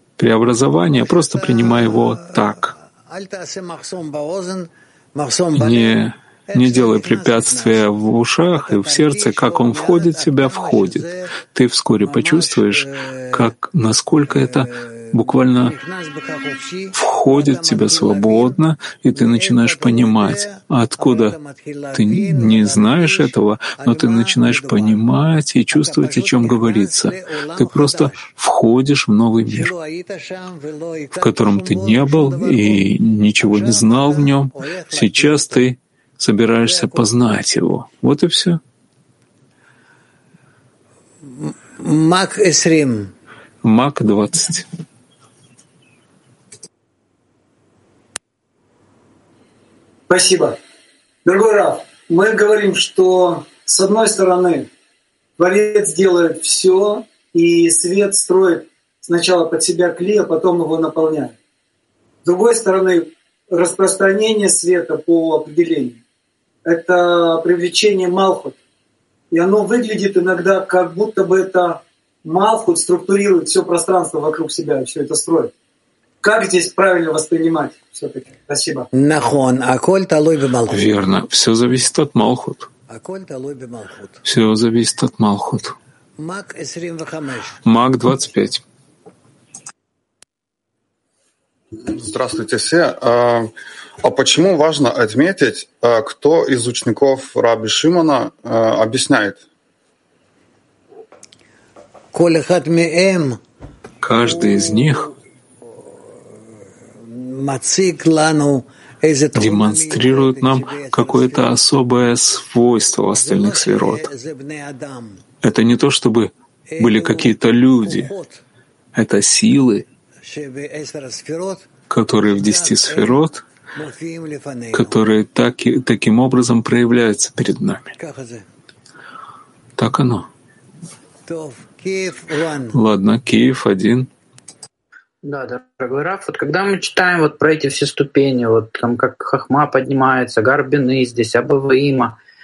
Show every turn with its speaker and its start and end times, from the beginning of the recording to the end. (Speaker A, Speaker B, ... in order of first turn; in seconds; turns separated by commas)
Speaker A: 0.2-2.7, Speaker B: 0.9-6.0, Speaker A: 5.6-15.8, Speaker B: 6.5-7.9, Speaker B: 8.5-11.3, Speaker B: 12.1-13.5, Speaker B: 14.3-18.6, Speaker A: 16.9-21.4, Speaker B: 19.1-25.0, Speaker A: 21.9-29.7, Speaker B: 25.7-28.3, Speaker B: 29.5-32.9, Speaker A: 31.2-38.6, Speaker B: 33.4-35.7, Speaker B: 36.6-37.1, Speaker B: 41.2-43.1, Speaker A: 43.6-44.7, Speaker C: 50.1-50.6, Speaker C: 51.2-54.7, Speaker C: 55.4-61.3, Speaker C: 62.2-66.0, Speaker C: 66.7-68.6, Speaker C: 69.3-75.5, Speaker C: 76.2-78.9, Speaker B: 78.9-80.8, Speaker A: 80.7-82.7, Speaker B: 82.9-84.2, Speaker A: 84.2-85.8, Speaker B: 86.2-87.6, Speaker A: 87.7-88.6, Speaker D: 91.8-93.5, Speaker D: 94.0-99.4, Speaker B: 102.1-103.4, Speaker A: 104.0-105.1, Speaker B: 104.2-105.2, Speaker B: 105.7-106.3, Speaker B: 107.0-111.6, Speaker A: 109.3-114.1, Speaker B: 113.1-115.2, Speaker A: 115.4-118.1, Speaker B: 116.7-118.4, Speaker A: 119.0-119.8, Speaker B: 120.2-121.7, Speaker A: 121.9-123.4, Speaker B: 122.3-125.0, Speaker A: 124.7-128.0, Speaker B: 128.0-128.4, Speaker A: 129.8-130.3, Speaker B: 131.3-132.8, Speaker A: 132.7-134.1, Speaker E: 135.2-142.2